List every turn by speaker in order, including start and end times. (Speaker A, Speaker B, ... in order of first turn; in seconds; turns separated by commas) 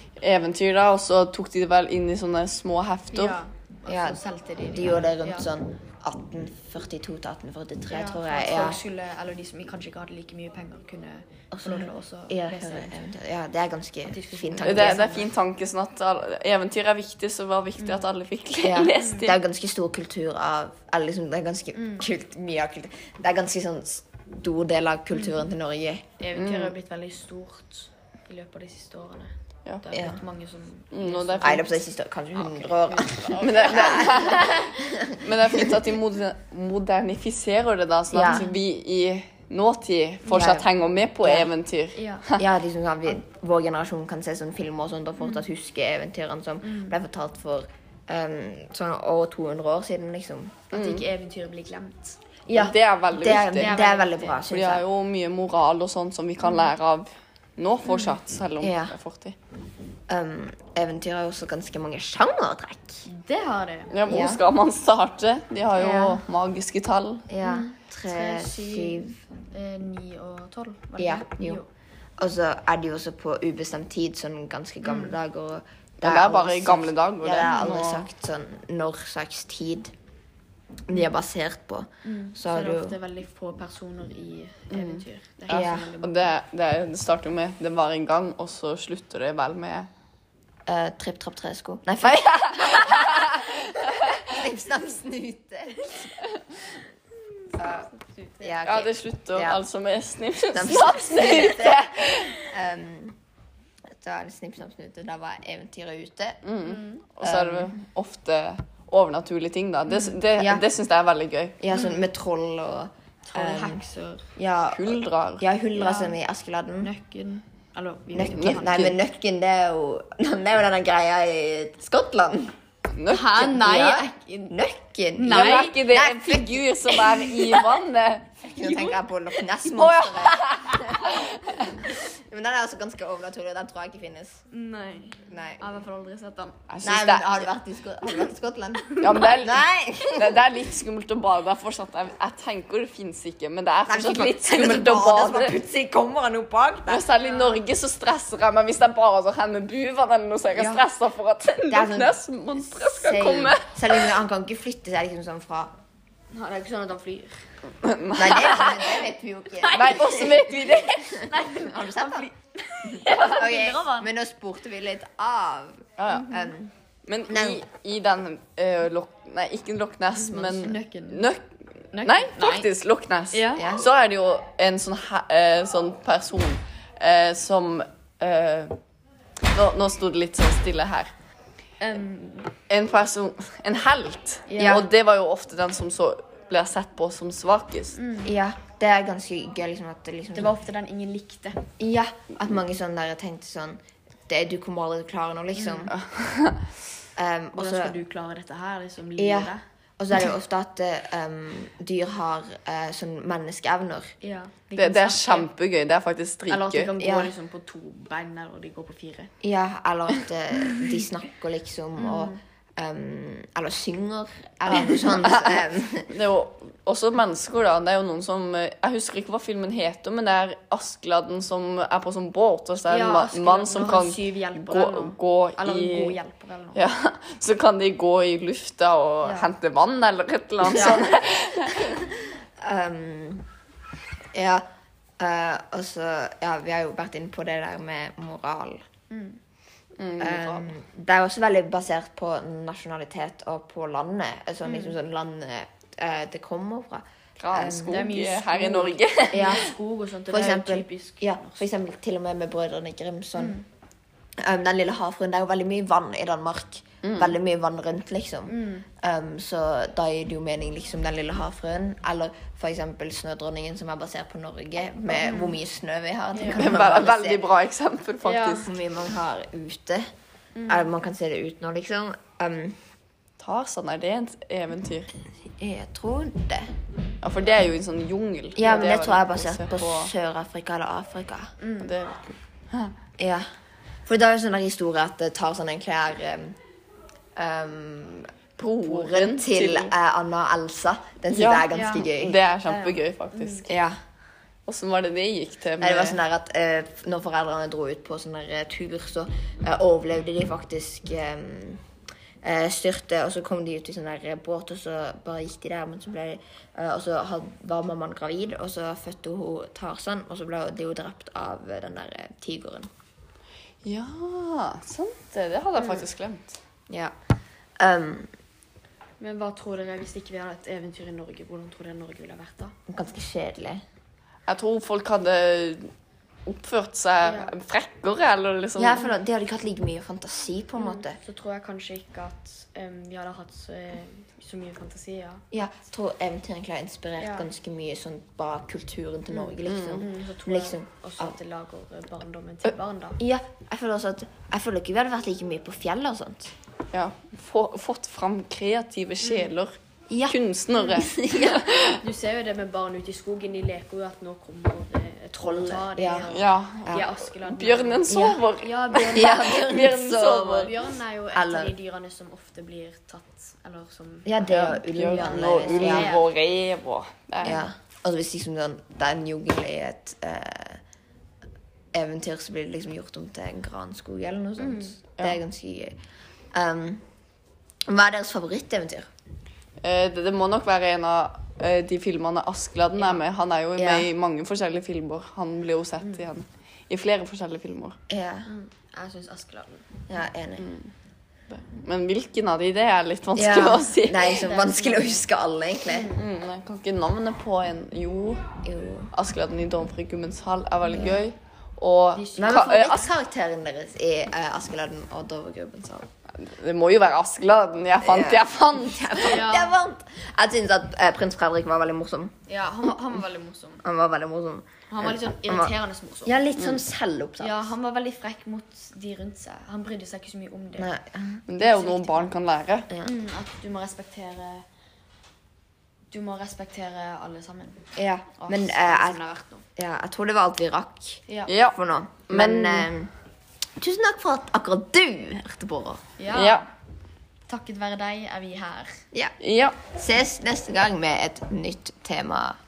Speaker A: 0.2-3.4, Speaker B: 3.1-5.5, Speaker C: 3.9-8.8, Speaker B: 7.9-12.9, Speaker C: 11.5-15.2, Speaker B: 14.1-15.3, Speaker A: 14.6-19.3, Speaker B: 17.8-18.0, Speaker C: 18.6-26.1, Speaker B: 19.0-19.3, Speaker B: 21.8-22.1, Speaker B: 26.2-31.7, Speaker A: 26.4-26.8, Speaker C: 29.9-30.2, Speaker A: 30.9-31.6, Speaker C: 31.4-35.8, Speaker B: 32.7-34.5, Speaker A: 33.3-42.5, Speaker C: 38.1-38.5, Speaker C: 40.3-40.7, Speaker C: 41.2-41.5, Speaker B: 42.0-42.3, Speaker C: 42.4-50.7, Speaker B: 46.6-47.0, Speaker B: 50.7-52.2, Speaker A: 50.7-51.1, Speaker C: 52.5-54.9, Speaker A: 52.5-53.8, Speaker B: 53.5-54.4, Speaker A: 54.4-59.4, Speaker B: 56.5-56.7, Speaker B: 57.9-58.2, Speaker C: 58.6-59.0, Speaker C: 60.1-63.1, Speaker B: 63.0-64.0, Speaker A: 63.9-67.3, Speaker C: 64.0-64.5, Speaker B: 65.8-66.2, Speaker C: 67.3-69.2, Speaker B: 67.4-71.7, Speaker C: 71.0-71.6, Speaker C: 72.2-79.9, Speaker B: 74.8-75.2, Speaker A: 76.0-78.1, Speaker C: 80.9-83.0, Speaker B: 82.0-86.4, Speaker A: 84.7-89.9, Speaker C: 85.5-85.9, Speaker C: 90.7-93.3, Speaker A: 92.0-94.5, Speaker C: 94.1-96.1, Speaker C: 97.6-97.9, Speaker B: 97.6-98.5, Speaker C: 98.4-99.6, Speaker A: 98.6-102.4, Speaker C: 100.5-101.8, Speaker C: 102.4-103.2, Speaker C: 103.9-106.4, Speaker A: 106.4-111.6, Speaker B: 106.6-107.1, Speaker C: 107.2-107.7, Speaker C: 110.4-110.7, Speaker C: 111.6-113.8, Speaker B: 111.7-112.0, Speaker B: 113.3-114.3, Speaker C: 114.4-116.9, Speaker A: 114.7-115.5, Speaker B: 115.8-116.2, Speaker B: 116.8-118.8, Speaker C: 118.1-122.5, Speaker A: 118.3-119.0, Speaker A: 123.0-123.5, Speaker B: 123.1-124.6, Speaker C: 123.4-127.1, Speaker B: 125.2-125.8, Speaker A: 125.3-128.5, Speaker B: 127.2-127.6, Speaker C: 128.4-131.2, Speaker B: 128.6-129.0, Speaker A: 129.6-131.8, Speaker C: 131.8-134.4, Speaker B: 134.5-136.6, Speaker C: 135.3-135.8, Speaker A: 136.7-137.5, Speaker C: 136.8-140.4, Speaker A: 139.0-145.6, Speaker C: 143.9-147.1, Speaker A: 146.9-154.2, Speaker C: 150.5-150.8, Speaker C: 151.7-155.7, Speaker B: 156.3-157.4, Speaker A: 157.8-159.1, Speaker C: 158.2-160.6, Speaker A: 159.6-161.3, Speaker B: 161.1-164.1, Speaker C: 161.2-162.3, Speaker C: 162.9-166.7, Speaker A: 166.0-166.3, Speaker B: 166.1-166.5, Speaker A: 167.1-178.8, Speaker C: 167.3-167.6, Speaker B: 170.3-171.3, Speaker B: 171.9-172.7, Speaker B: 173.3-173.7, Speaker C: 173.6-173.9, Speaker A: 179.5-181.1, Speaker B: 181.8-182.5, Speaker A: 182.7-188.0, Speaker B: 184.5-184.8, Speaker C: 184.6-184.9, Speaker B: 187.9-188.3, Speaker C: 188.2-190.6, Speaker B: 190.3-191.7, Speaker C: 191.8-195.9, Speaker B: 195.6-195.9, Speaker A: 195.9-196.7, Speaker C: 197.2-198.0, Speaker B: 197.6-199.6, Speaker C: 199.2-204.1, Speaker B: 204.2-205.5, Speaker A: 204.8-206.9, Speaker B: 206.5-209.3, Speaker C: 207.0-207.3, Speaker C: 209.4-216.1, Speaker B: 212.0-212.4, Speaker A: 214.7-226.2, Speaker B: 222.8-226.8, Speaker A: 226.8-232.0, Speaker B: 229.2-229.5, Speaker B: 230.7-231.0, Speaker C: 230.8-231.1, Speaker C: 231.7-232.1, Speaker C: 232.6-233.5, Speaker C: 234.3-234.7, Speaker C: 235.2-238.8, Speaker B: 239.1-239.4, Speaker A: 240.0-240.7, Speaker C: 240.2-248.0, Speaker B: 244.6-245.0, Speaker A: 247.4-249.7, Speaker B: 247.8-251.6, Speaker C: 249.3-249.8, Speaker C: 250.3-253.6, Speaker B: 253.4-253.7, Speaker C: 254.4-267.5, Speaker A: 257.0-257.4, Speaker B: 258.5-258.9, Speaker B: 265.1-265.6, Speaker B: 266.4-266.8, Speaker A: 266.5-268.7, Speaker B: 268.2-268.7, Speaker C: 268.6-270.1, Speaker B: 270.6-270.9, Speaker C: 270.7-272.8, Speaker A: 273.4-275.1, Speaker C: 275.5-276.7, Speaker A: 277.2-280.1, Speaker C: 278.6-281.6, Speaker B: 281.6-281.9, Speaker A: 281.8-282.9, Speaker C: 283.2-283.4, Speaker C: 284.1-286.6, Speaker C: 287.4-292.4, Speaker A: 288.6-289.9, Speaker A: 291.3-293.7, Speaker B: 291.7-292.1, Speaker B: 292.6-293.7, Speaker C: 293.6-294.0, Speaker A: 294.7-296.2, Speaker C: 295.8-301.8, Speaker C: 302.4-312.9, Speaker A: 313.8-316.6, Speaker C: 317.8-318.3, Speaker B: 319.2-322.7, Speaker C: 322.9-323.8, Speaker A: 324.5-325.9, Speaker A: 326.5-329.1, Speaker B: 327.2-327.5, Speaker C: 328.8-331.2, Speaker B: 330.8-335.4, Speaker C: 335.5-341.4, Speaker B: 337.2-337.5, Speaker A: 339.6-340.0, Speaker B: 339.9-343.2, Speaker C: 343.2-346.5, Speaker A: 346.9-352.0, Speaker B: 349.2-349.5, Speaker C: 350.1-350.4, Speaker C: 350.9-351.7, Speaker B: 352.0-359.6, Speaker C: 355.4-356.3, Speaker A: 356.3-360.7, Speaker C: 358.1-358.4, Speaker C: 359.0-360.7, Speaker B: 360.4-364.4, Speaker C: 361.3-361.8, Speaker C: 364.3-366.2, Speaker A: 364.4-367.6, Speaker B: 365.1-366.3, Speaker C: 367.4-370.8, Speaker C: 371.9-376.0, Speaker B: 374.6-374.9, Speaker C: 376.5-377.0, Speaker C: 377.9-379.1, Speaker A: 379.8-388.0, Speaker C: 383.8-384.1, Speaker C: 388.1-388.5, Speaker B: 388.5-390.0, Speaker C: 390.1-390.7, Speaker A: 390.6-390.9, Speaker A: 391.6-394.4, Speaker C: 393.4-396.1, Speaker B: 394.2-395.2, Speaker B: 395.9-396.2, Speaker A: 396.1-398.4, Speaker C: 398.6-399.1, Speaker A: 399.1-403.0, Speaker B: 402.1-403.1, Speaker C: 402.4-406.1, Speaker A: 406.4-409.5, Speaker C: 408.0-412.3, Speaker B: 409.2-409.7, Speaker B: 412.5-413.8, Speaker C: 413.8-417.8, Speaker B: 414.9-416.4, Speaker B: 417.4-420.9, Speaker C: 420.8-421.4, Speaker A: 421.5-422.9, Speaker B: 421.6-422.3, Speaker B: 423.0-424.6, Speaker B: 426.1-427.8, Speaker C: 428.0-429.2, Speaker B: 428.4-429.6, Speaker C: 429.8-433.1, Speaker A: 431.5-431.8, Speaker A: 432.3-432.9, Speaker C: 433.8-436.0, Speaker B: 436.2-436.7, Speaker A: 436.3-436.7, Speaker B: 437.5-439.0, Speaker A: 439.4-439.8, Speaker C: 439.9-442.6